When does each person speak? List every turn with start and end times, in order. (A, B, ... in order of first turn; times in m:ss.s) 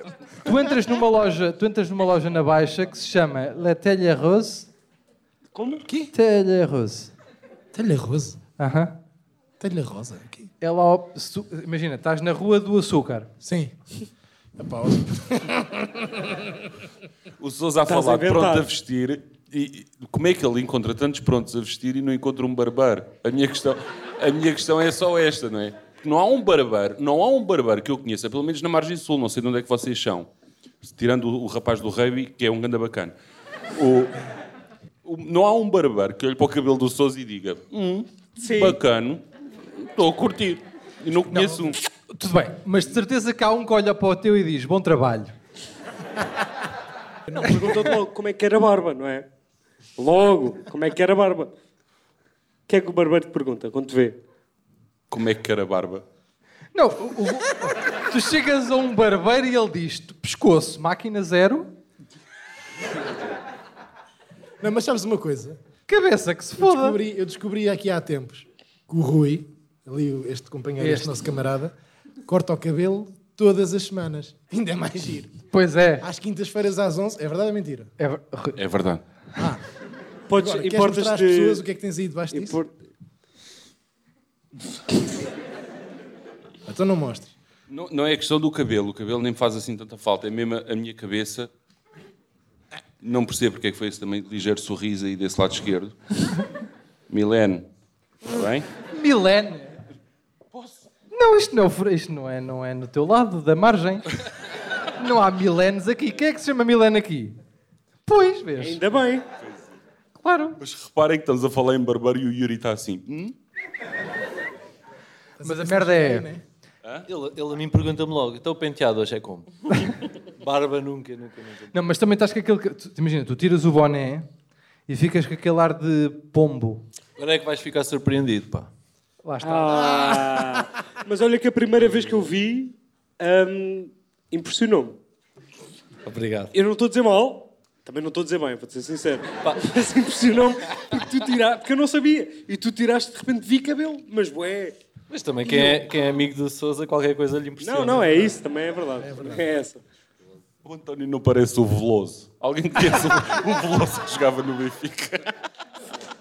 0:00.3-0:04.7 A
0:05.5-0:05.8 B
0:05.8-0:06.1 C
0:06.1-0:07.1 A
0:07.7-0:08.4 C
0:08.6-0:09.0 A
0:09.6-0:10.5 C
0:10.6-0:13.3 A
0:13.4-0:13.7 C
0:14.6-0:16.6 C
0:17.4-0:30.3 D
0:17.8-0:18.7 B
0:30.8-0:33.1 D
0:33.7-0:34.2 D
0:35.0-0:41.8 D
0:38.4-0:38.8 B
0:41.3-0:45.3 A
0:47.3-0:47.6 C
0:47.4-0:49.2 B
0:50.0-0:51.5 B
0:52.7-0:54.2 B
0:55.1-0:56.0 D
0:56.7-1:01.7 A
1:04.6-1:05.6 C
1:05.9-1:07.0 A
1:06.6-1:11.7 C
1:10.8-1:11.2 A
1:12.2-1:15.3 C
1:15.5-1:16.0 A
1:16.0-1:17.9 C
1:18.0-1:18.6 A
1:18.6-1:19.0 D
1:19.4-1:19.6 C
1:20.3-1:21.6 B
1:20.3-1:22.6 C
1:22.3-1:22.7 B
1:26.6-1:27.3 C
1:27.7-1:31.5 D
1:33.0-1:36.0 D
1:37.1-1:37.6 D
1:38.2-1:38.7 D
1:38.9-1:39.8 A
1:41.1-1:44.1 A
1:45.0-1:47.4 A
1:48.0-1:48.8 A
1:48.6-1:49.2 B
1:50.2-1:50.6 A
1:50.6-1:53.3 D
1:55.4-1:56.4 C
1:55.4-1:56.3 A
1:57.1-2:01.8 E
2:01.7-2:04.2 A
2:04.9-2:06.8 A
2:07.2-2:08.7 E
2:09.2-2:10.0 A
2:09.4-2:15.0 B
2:16.0-2:16.5 E
2:16.5-2:24.8 B
2:25.1-2:28.4 E
2:27.6-2:29.8 B
2:29.0-2:29.4 C
2:30.6-2:35.3 D